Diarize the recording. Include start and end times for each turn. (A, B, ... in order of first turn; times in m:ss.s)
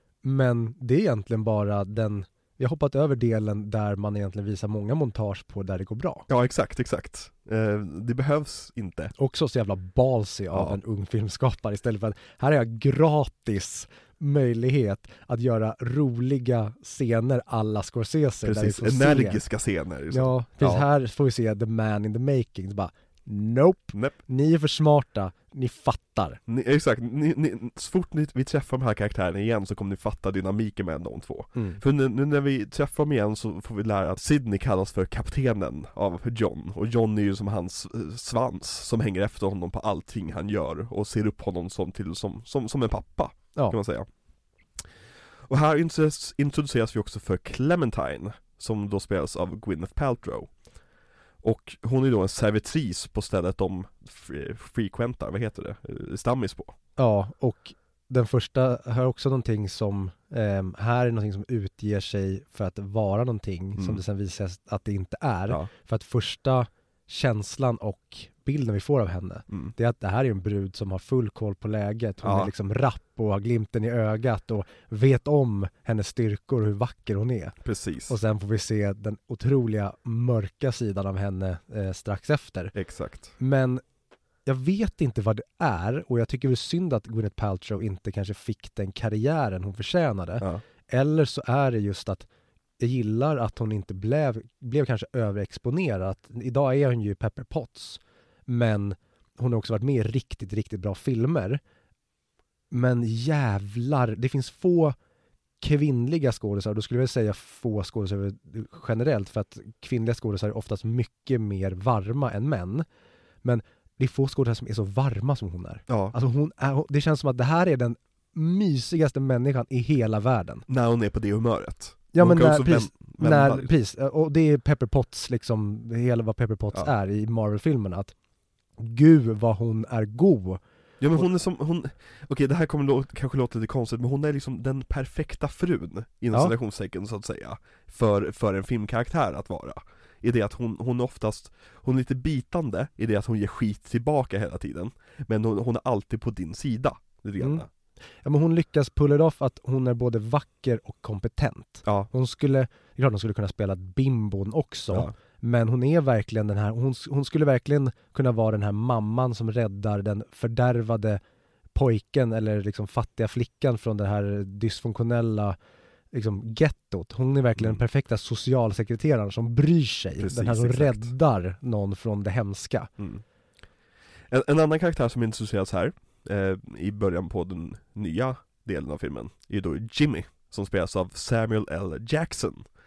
0:00.2-0:06.3 A
0:06.3-0:09.1 B
0:09.2-0:19.4 A
0:18.4-0:20.8 B
0:20.1-0:26.4 A
0:26.5-0:44.1 B
0:31.6-0:31.8 A
0:45.5-0:50.5 B
0:51.4-0:56.7 B
0:57.0-1:17.6 A
1:03.8-1:04.0 B
1:12.2-1:12.5 B
1:17.6-1:18.2 B
1:18.1-1:22.7 A
1:22.7-1:23.3 B
1:23.4-1:23.8 A
1:24.5-1:32.3 A
1:32.8-1:41.6 A
1:42.7-1:45.0 A
1:45.6-1:52.8 A
1:53.4-2:00.6 A
1:55.9-1:56.2 B
2:00.7-2:03.7 B
2:02.1-2:08.2 A
2:08.8-2:10.6 A
2:11.0-2:27.7 B
2:27.4-2:27.7 A
2:28.2-2:41.2 A
2:41.7-2:45.6 A
2:46.1-2:52.9 A
2:50.2-2:51.1 B
2:54.3-3:02.6 B